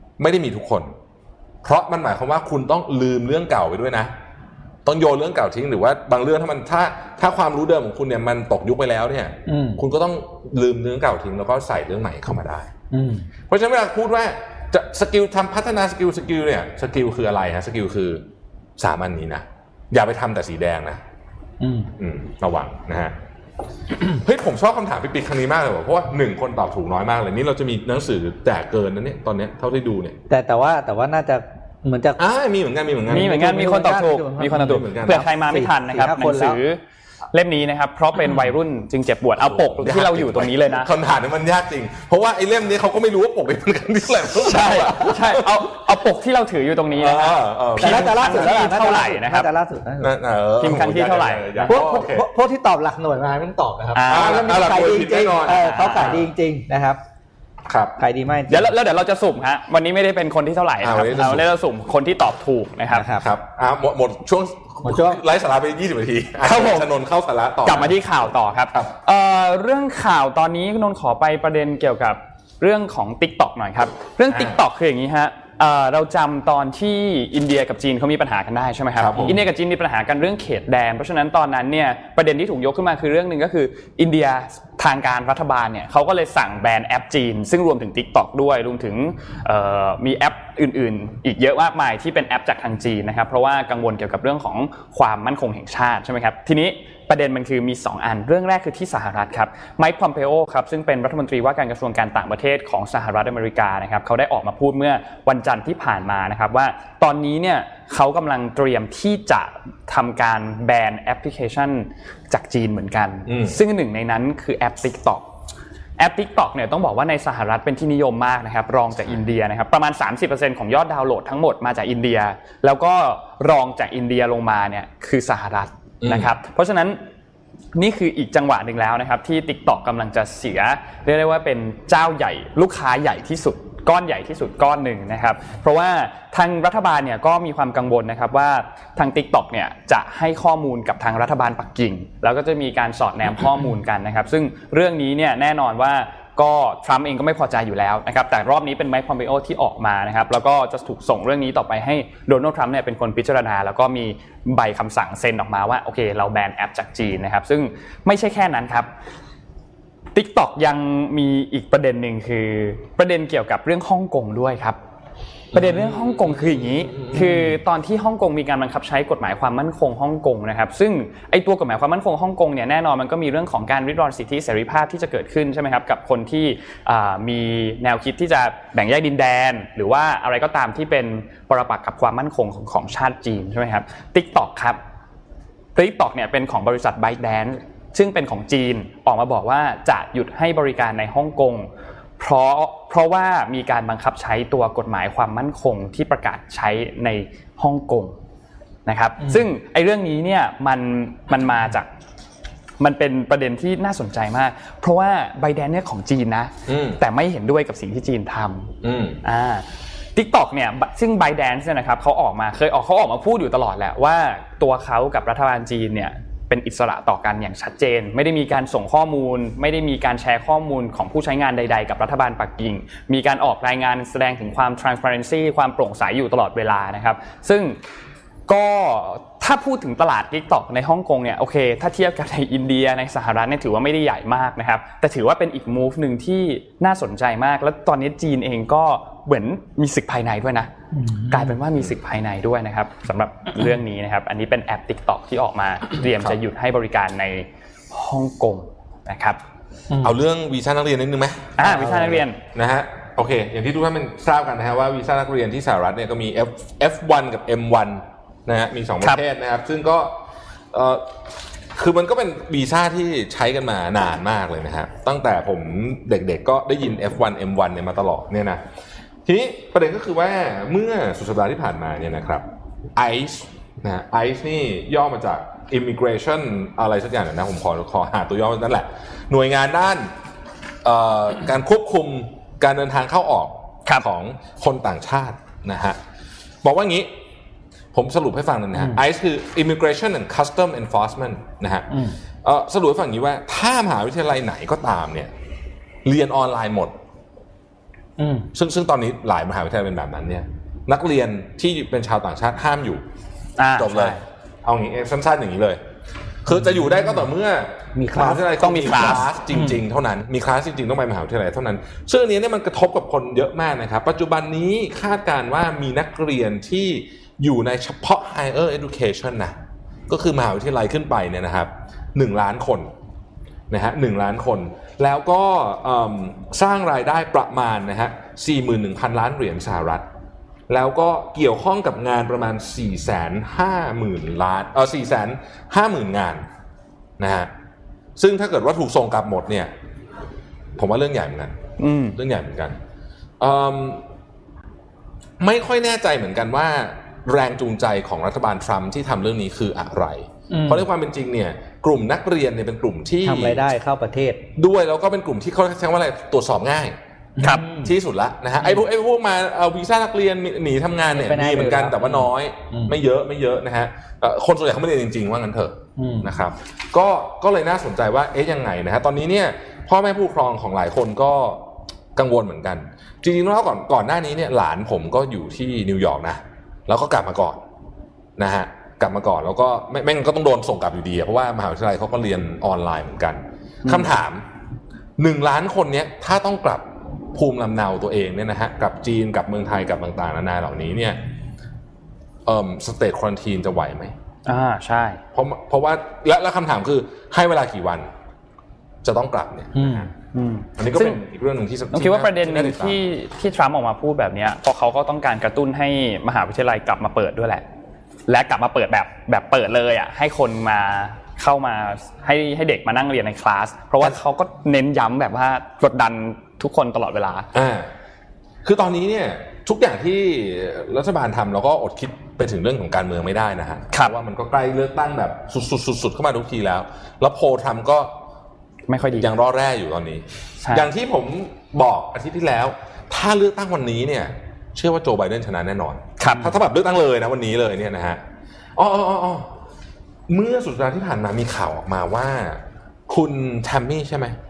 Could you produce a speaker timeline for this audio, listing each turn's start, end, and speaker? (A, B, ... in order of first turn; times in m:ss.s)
0:00.2-0:00.9 A
0:01.6-0:04.1 A
0:04.8-0:12.7 A
0:09.5-0:09.8 B
0:12.9-0:13.3 B
0:13.5-0:18.2 A
0:18.8-0:21.0 A
0:21.6-0:21.9 B
0:22.0-0:23.2 A
0:24.1-0:30.2 A
0:30.3-0:32.2 B
0:32.2-0:33.4 A
0:33.1-0:36.8 C
0:33.1-0:36.6 B
0:34.5-0:35.3 A
0:37.3-0:40.9 C
0:39.4-0:45.7 A
0:44.4-0:49.5 C
0:44.8-0:45.1 B
0:47.0-0:48.8 A
0:47.8-0:50.1 B
0:50.0-0:52.3 A
0:50.6-0:51.8 C
0:51.7-0:57.0 B
0:53.9-0:56.3 C
0:54.1-0:56.0 A
0:57.7-0:58.0 A
0:58.0-0:58.7 B
0:58.5-1:03.1 C
1:00.8-1:01.5 A
1:02.9-1:03.2 B
1:03.2-1:08.0 A
1:04.8-1:05.2 B
1:06.4-1:06.9 C
1:07.6-1:55.3 C
1:14.3-1:14.6 A
1:19.0-1:19.4 A
1:53.3-1:53.6 A
1:56.0-2:07.0 C
2:06.0-2:06.3 A
2:07.8-2:38.9 C
2:40.1-2:44.8 C
2:45.5-2:47.6 A
2:45.5-3:04.8 C
3:05.8-3:11.7 C
3:12.2-3:18.2 C
3:18.9-3:21.9 C
3:19.2-3:19.5 B
3:22.8-3:47.8 C
3:26.7-3:27.0 A
3:28.8-3:29.2 A
3:48.5-4:00.7 C
4:00.9-4:01.5 B
4:01.3-4:09.4 C
4:06.0-4:06.4 A
4:09.9-4:10.2 B
4:10.0-4:20.2 A
4:11.6-4:12.4 C
4:11.6-4:12.2 B
4:20.7-4:21.1 A
4:21.7-4:28.6 A
4:29.3-4:40.1 A
4:40.8-4:46.0 A
4:46.6-4:47.1 A
4:47.9-4:51.9 A
4:51.9-4:52.2 B
4:52.4-4:55.3 A
4:56.0-4:57.0 A
4:58.2-4:58.5 B
4:58.5-5:03.0 A
5:03.6-5:04.2 C
5:03.8-5:05.8 A
5:06.4-5:19.6 A
5:06.5-5:07.2 B
5:08.0-5:08.5 B
5:08.6-5:09.3 C
5:09.5-5:09.8 B
5:20.1-5:22.9 A
5:23.7-5:30.1 A
5:30.7-5:36.5 A
5:37.2-5:37.5 A
5:38.2-5:39.7 A
5:40.8-5:42.8 A
5:41.8-5:42.2 C
5:43.4-5:44.0 A
5:45.4-5:53.6 A
5:50.5-5:50.9 B
5:53.2-5:54.4 B
5:54.6-5:57.0 A
5:57.4-5:57.9 B
5:57.8-6:17.6 A
6:01.1-6:02.9 B
6:06.0-6:06.3 B
6:18.4-6:24.4 A
6:25.2-6:31.2 A
6:32.4-6:34.2 A
6:34.5-6:35.2 C
6:35.3-6:38.1 A
6:39.0-6:40.1 A
6:39.8-6:40.1 B
6:40.3-6:41.2 C
6:40.8-6:43.0 A
6:41.9-6:47.6 C
6:48.3-6:57.5 C
6:57.5-6:57.9 A
6:58.6-7:08.1 A
7:08.9-7:09.3 C
7:09.1-7:18.2 A
7:16.2-7:16.6 C
7:18.8-7:19.5 A
7:20.3-7:24.4 A